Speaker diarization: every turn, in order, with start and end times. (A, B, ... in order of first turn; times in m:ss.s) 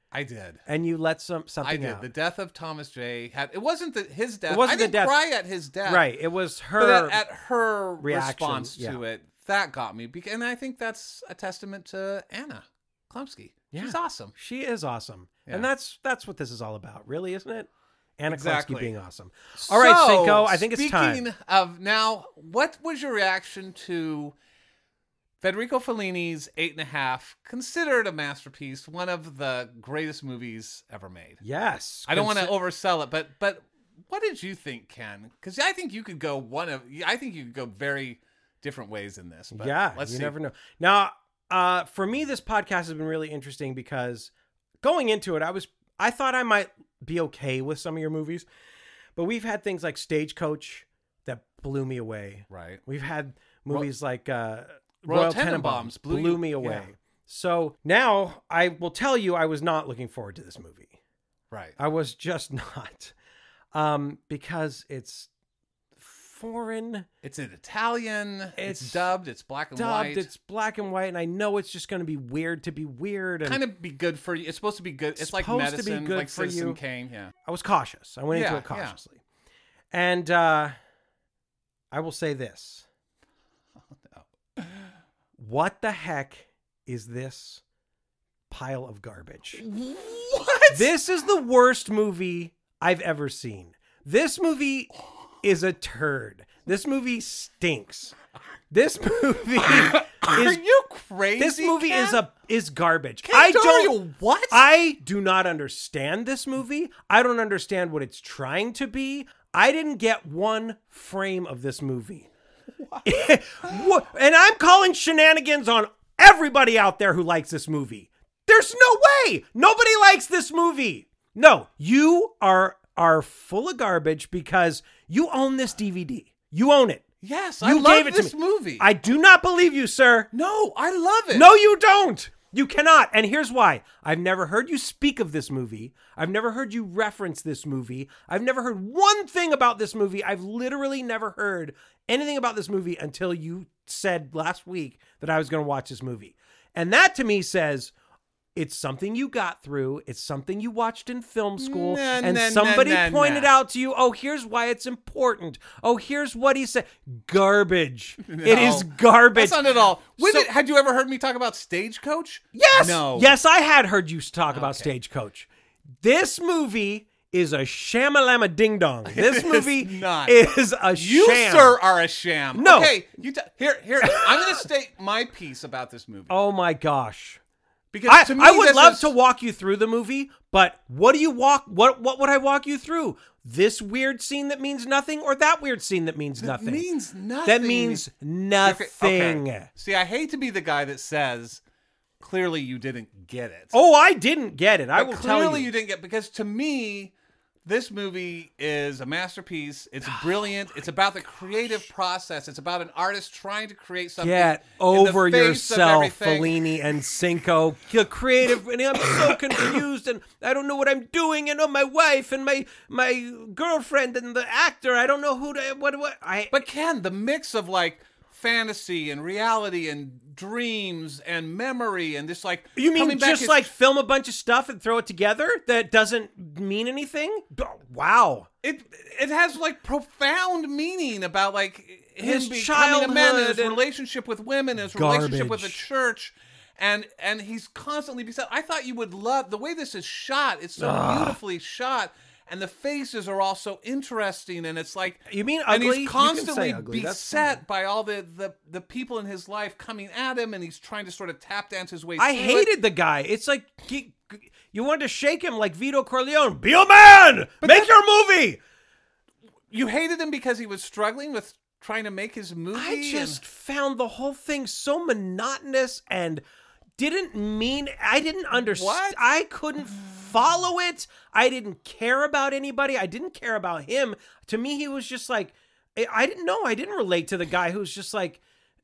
0:00.1-0:00.6 A
0:00.7-0:02.0 B
0:01.6-0:06.1 A
0:04.5-0:05.2 B
0:05.8-0:07.2 B
0:06.8-0:14.3 A
0:08.0-0:09.0 B
0:13.7-0:21.2 B
0:18.3-0:18.9 A
0:19.6-0:24.4 A
0:25.4-0:31.4 A
0:31.4-0:32.6 B
0:32.1-0:40.4 A
0:39.5-0:44.3 B
0:44.8-0:48.4 B
0:49.2-1:01.0 B
0:52.5-0:52.8 A
0:55.0-0:56.9 A
1:01.5-1:01.8 A
1:01.8-1:03.1 B
1:03.7-1:05.3 B
1:06.0-1:07.1 B
1:07.2-1:10.3 A
1:08.6-1:09.1 B
1:09.7-1:13.6 B
1:13.4-1:17.3 A
1:15.2-1:16.8 B
1:17.4-1:19.2 B
1:18.3-1:19.0 A
1:19.9-1:20.7 B
1:21.9-1:22.9 B
1:23.9-1:24.9 A
1:25.4-1:27.6 B
1:28.5-1:29.6 B
1:29.6-1:30.9 A
1:30.7-1:38.1 B
1:38.7-1:40.6 B
1:39.6-1:42.2 A
1:41.4-1:44.0 B
1:43.2-1:44.6 A
1:44.5-1:52.3 B
1:52.8-1:53.3 A
1:53.0-2:07.0 B
2:07.2-2:08.9 A
2:07.6-2:10.3 B
2:10.3-2:11.5 A
2:11.3-2:27.9 B
2:28.6-2:39.6 B
2:31.6-2:33.5 A
2:38.2-2:43.4 A
2:40.2-2:40.5 B
2:42.5-2:45.5 B
2:44.5-2:44.9 A
2:46.0-2:51.8 B
2:49.1-2:50.4 A
2:50.9-2:56.4 A
2:52.6-2:53.0 B
2:54.0-2:54.6 B
2:56.3-2:57.4 B
2:57.9-2:59.1 A
2:58.1-3:06.9 B
3:06.4-3:08.1 A
3:07.4-3:09.7 B
3:08.6-3:11.6 A
3:12.2-3:13.7 A
3:13.7-3:15.7 B
3:15.0-3:17.1 A
3:17.6-3:26.6 A
3:24.2-3:36.6 B
3:36.5-3:43.7 A
3:42.8-3:48.5 B
3:48.6-4:12.7 A
3:52.2-3:53.8 B
3:54.8-3:55.9 B
4:00.8-4:01.4 B
4:05.3-4:07.6 B
4:12.2-4:18.6 B
4:17.6-4:17.9 A
4:19.7-4:23.4 A
4:22.7-4:26.4 B
4:27.0-4:38.4 B
4:28.5-4:29.2 A